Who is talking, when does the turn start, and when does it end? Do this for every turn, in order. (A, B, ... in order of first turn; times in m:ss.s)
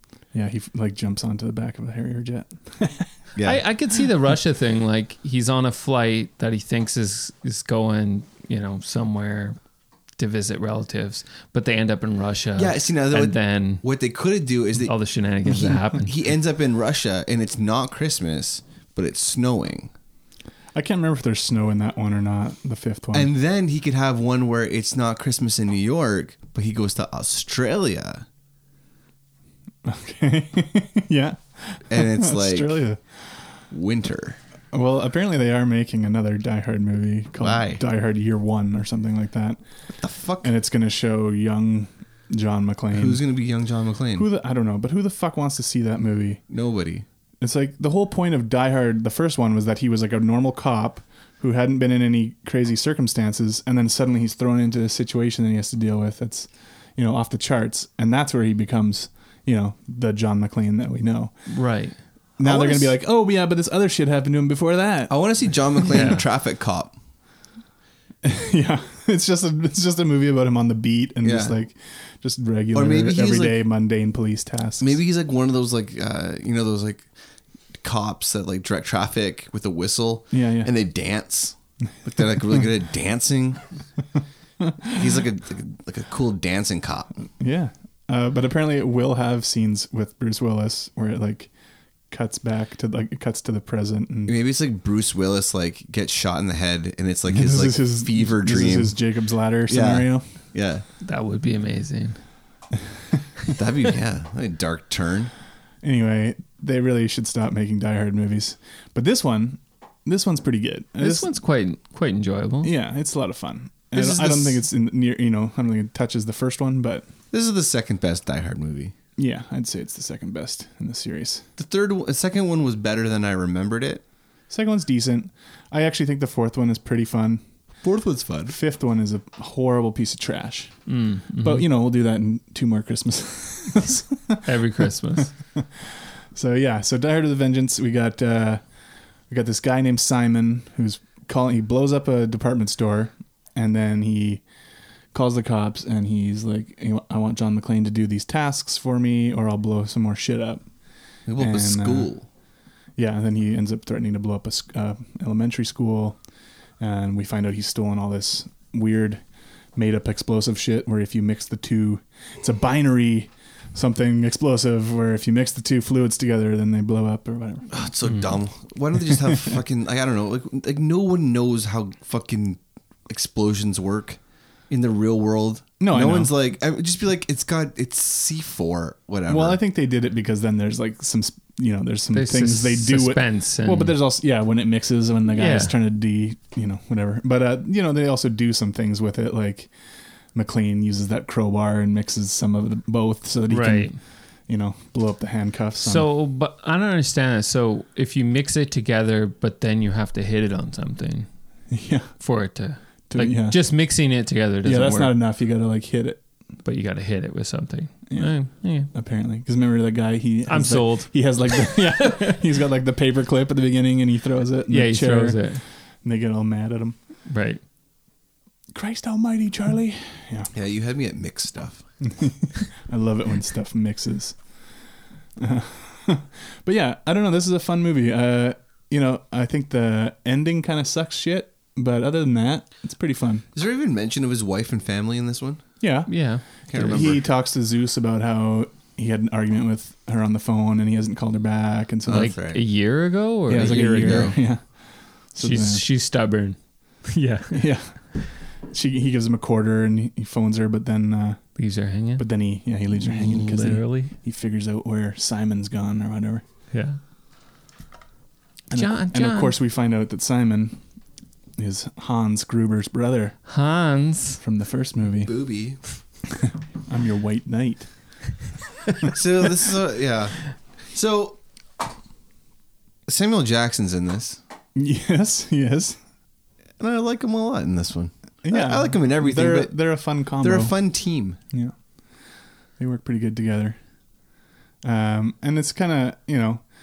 0:00.3-0:03.1 A
0:03.3-0:03.6 B
0:03.4-0:09.6 C
0:10.2-0:13.8 C
0:12.6-0:14.9 B
0:14.8-0:16.1 C
0:15.4-0:19.9 B
0:20.7-0:23.3 A
0:23.1-0:28.2 B
0:29.8-0:33.0 A
0:31.9-0:32.8 B
0:33.7-0:34.4 B
0:34.7-0:39.6 A
0:37.4-0:37.8 B
0:39.9-0:40.5 B
0:40.4-0:43.2 A
0:42.9-0:44.3 B
0:44.2-0:46.4 A
0:46.5-0:47.0 B
0:47.4-1:01.4 A
1:01.5-1:02.0 C
1:02.4-1:03.0 B
1:02.4-1:05.1 A
1:05.1-1:07.0 B
1:05.9-1:06.2 C
1:08.2-1:15.0 A
1:11.2-1:11.5 B
1:12.7-1:13.6 B
1:14.8-1:17.1 B
1:17.8-1:23.6 B
1:20.3-1:20.7 A
1:24.8-1:27.1 B
1:27.4-1:31.5 A
1:32.1-1:34.3 A
1:34.3-1:39.0 B
1:37.3-1:40.3 A
1:39.7-1:40.8 B
1:41.0-1:42.2 C
1:43.5-1:45.3 B
1:45.8-1:51.3 A
1:51.0-1:52.7 C
1:52.6-1:57.1 A
1:53.9-1:54.6 B
1:57.3-1:58.9 B
1:59.2-2:01.4 A
2:01.6-2:04.0 B
2:04.5-2:07.4 A
2:07.8-2:08.6 B
2:08.5-2:10.8 A
2:10.9-2:11.6 C
2:11.4-2:14.4 A
2:14.4-2:15.3 C
2:16.3-2:18.6 A
2:19.3-2:24.4 A
2:25.1-2:30.6 A
2:31.2-2:32.3 B
2:31.4-2:32.1 A
2:33.0-2:36.2 A
2:36.8-2:39.2 A
2:39.7-2:47.9 A
2:47.7-2:59.6 B
2:48.0-2:48.4 C
2:55.8-2:56.3 A
2:59.3-3:09.7 A
3:02.1-3:04.0 C
3:05.3-3:05.7 C
3:10.3-3:13.9 A
3:13.5-3:14.0 C
3:14.4-3:16.0 A
3:15.8-3:21.3 C
3:21.7-3:22.1 A
3:22.2-3:25.2 C
3:23.1-3:23.6 A
3:24.6-3:26.2 A
3:26.6-3:28.9 C
3:28.9-3:35.5 A
3:30.5-3:32.2 C
3:34.7-3:35.6 C
3:36.0-3:37.0 A
3:37.3-3:37.6 C
3:38.7-3:40.5 A
3:40.5-3:41.8 B
3:42.0-3:44.4 A
3:45.4-3:53.4 A
3:53.5-3:55.6 B
3:55.8-4:02.4 A
3:56.1-3:57.2 C
3:56.7-3:57.2 B
4:02.0-4:02.6 B
4:02.1-4:04.4 C
4:03.5-4:04.8 A
4:03.5-4:04.4 B
4:05.3-4:05.8 A
4:05.4-4:07.7 C
4:07.5-4:11.4 A
4:11.6-4:12.2 C
4:12.2-4:16.4 A
4:13.0-4:14.1 C
4:16.7-4:17.0 C
4:18.7-4:20.8 A
4:18.7-4:19.6 C
4:21.6-4:23.4 A
4:23.5-4:24.4 C
4:24.4-4:25.4 A
4:25.2-4:25.8 B
4:26.9-4:27.9 A
4:29.1-4:31.4 B
4:33.1-4:34.4 B
4:34.8-4:36.0 A
4:36.8-4:41.4 B
4:38.4-4:40.8 A
4:42.8-4:43.8 A
4:44.8-4:46.6 A